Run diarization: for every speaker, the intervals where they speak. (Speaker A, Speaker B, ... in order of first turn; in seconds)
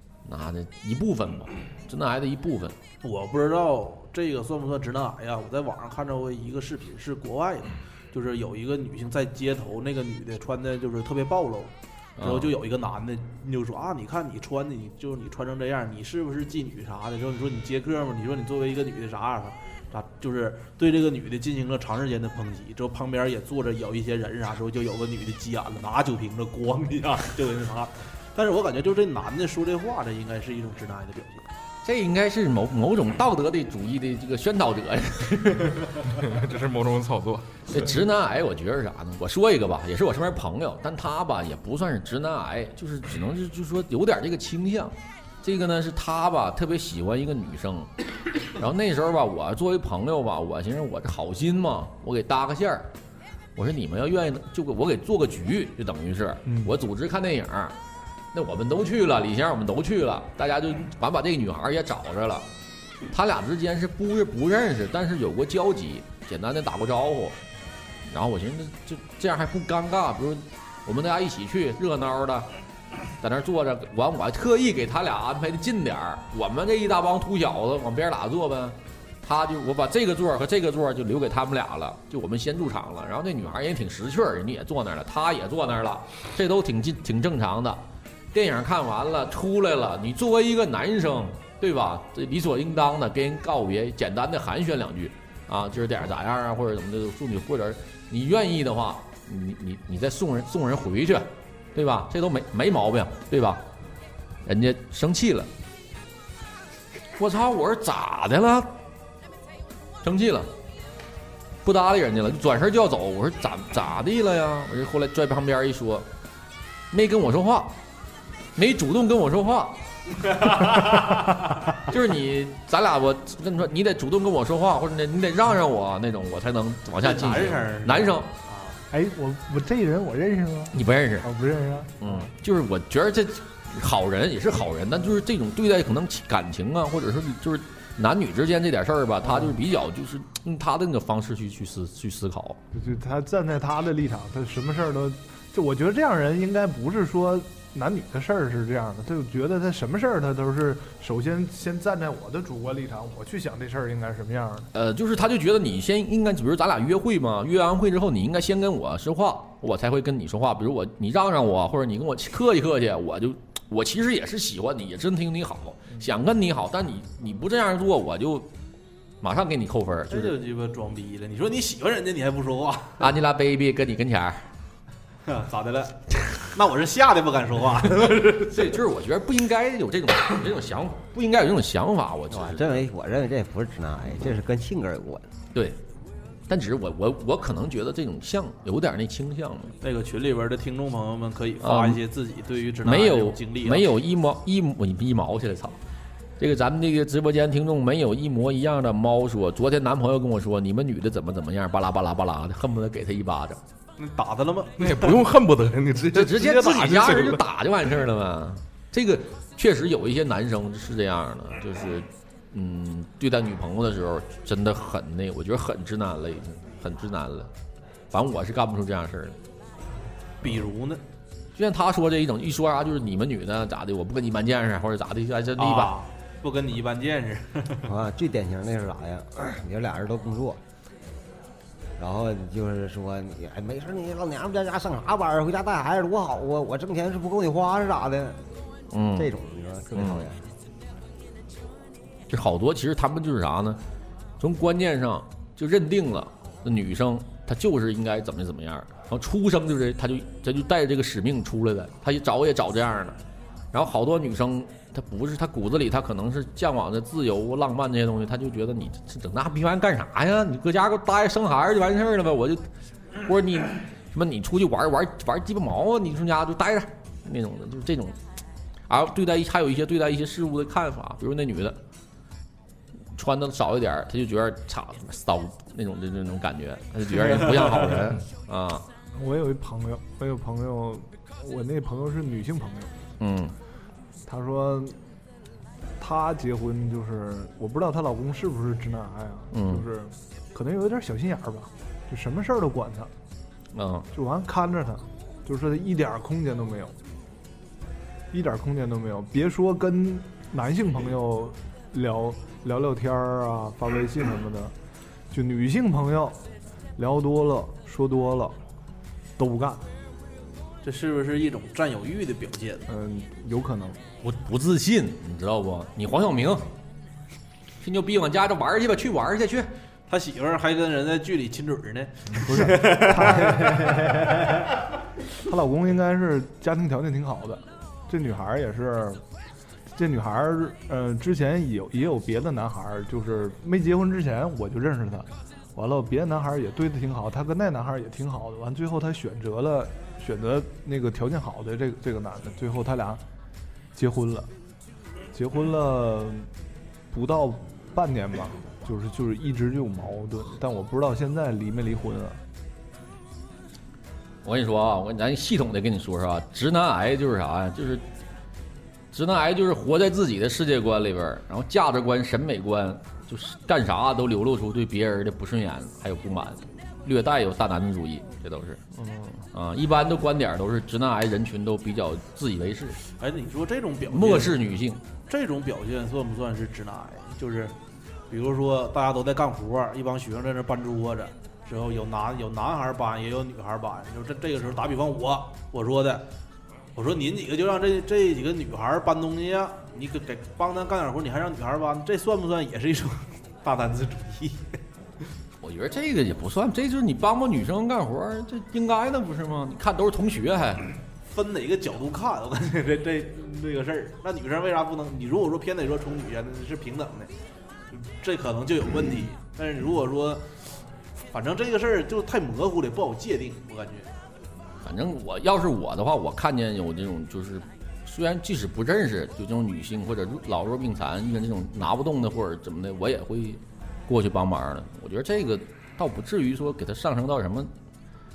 Speaker A: 0.2-2.8, 12.2-12.5, 31.8-35.9, 37.7-47.9, 48.5-52.9, 53.5-57.8, 58.3-62.5, 63.1-67.4, 68.0-72.5, 73.2-103.6, 104.4-105.5, 107.2-108.7, 110.0-110.5, 111.6-116.1, 116.9-117.8, 118.5-119.8, 121.8-128.3, 130.7-131.3, 132.0-142.6, 154.7-168.5, 169.2-170.3, 173.0-174.5, 178.4-182.8, 185.5-185.8, 186.5-189.8, 191.6-192.0, 192.8-195.8, 196.4-203.6, 206.1-217.5, 218.1-219.4, 221.5-225.9, 238.9-239.3, 239.9-240.2, 242.3-243.8, 244.4-253.2, 253.7-262.6, 263.2-268.2, 268.9-271.8, 273.1-278.9, 283.2-283.5, 289.5-289.9, 293.7-294.1, 314.2-316.7, 317.8-319.7, 354.4-358.1, 359.1-373.0, 374.1-375.0, 395.6-400.9, 414.8-427.7
Speaker B: 3.0-31.5, 120.3-121.4, 127.0-128.8, 170.1-173.1, 175.2-178.6, 189.8-193.9, 204.0-205.2, 206.3-207.4, 220.4-221.0, 225.6-227.9, 277.3-277.9, 310.8-312.9, 320.1-324.5, 373.1-374.6, 375.3-377.7, 378.3-386.3, 386.9-394.8, 401.2-407.3, 407.9-410.7, 411.3-414.1
Speaker C: 36.0-37.6, 204.8-206.9
Speaker D: 128.9-132.3, 139.2-139.5, 142.7-154.7, 279.1-282.9, 284.2-285.0, 286.0-293.1, 294.1-296.9, 298.3-304.7, 305.3-306.4, 307.0-308.6, 309.4-309.8, 312.9-314.0, 322.4-324.3, 325.4-329.2, 329.9-343.2, 343.9-344.5, 345.3-346.5, 347.1-352.4
Speaker E: 182.3-185.3, 227.8-230.6, 232.0-238.5, 239.2-240.5